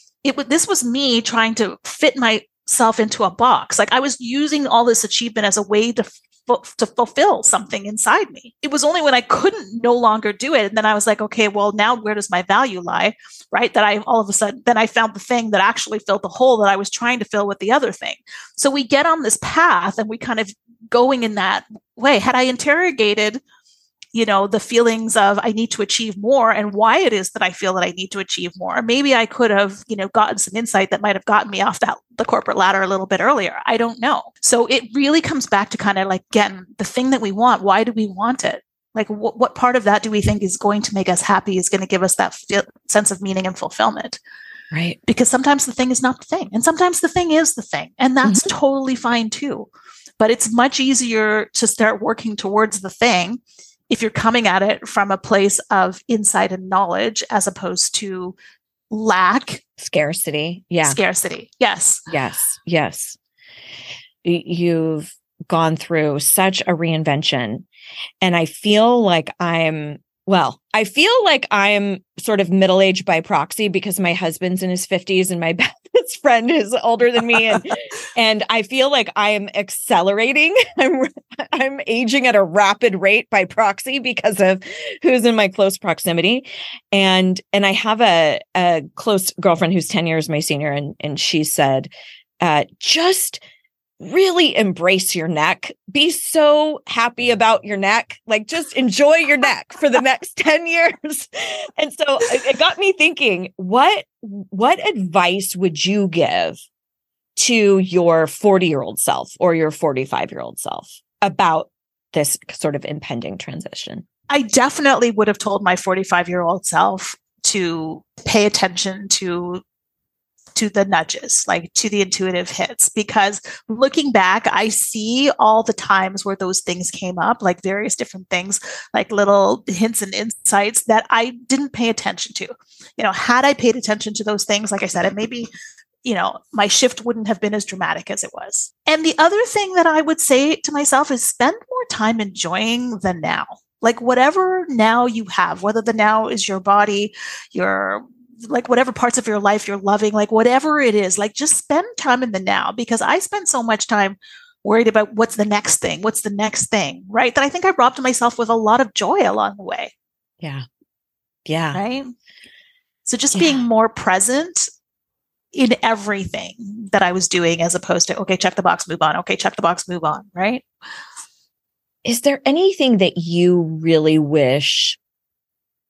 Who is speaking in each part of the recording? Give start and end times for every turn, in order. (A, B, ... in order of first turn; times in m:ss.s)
0:00.2-0:23.4 A
0:24.1-0:44.2 A
0:44.7-0:45.0 B
0:45.1-0:58.3 A
0:48.2-0:48.5 B
0:58.9-0:59.6 A
0:59.8-1:01.0 B
1:00.8-1:02.0 A
1:02.1-1:03.2 B
1:04.2-1:07.6 B
1:08.2-1:33.4 B
1:34.0-1:46.6 B
1:47.4-1:54.0 B
1:54.3-1:59.6 A
2:00.5-2:15.5 A
2:16.0-2:39.9 A
2:41.4-2:41.8 B
2:41.7-2:42.1 A
2:43.0-2:44.6 A
2:43.3-2:43.6 B
2:45.5-2:50.6 A
2:52.0-2:55.0 B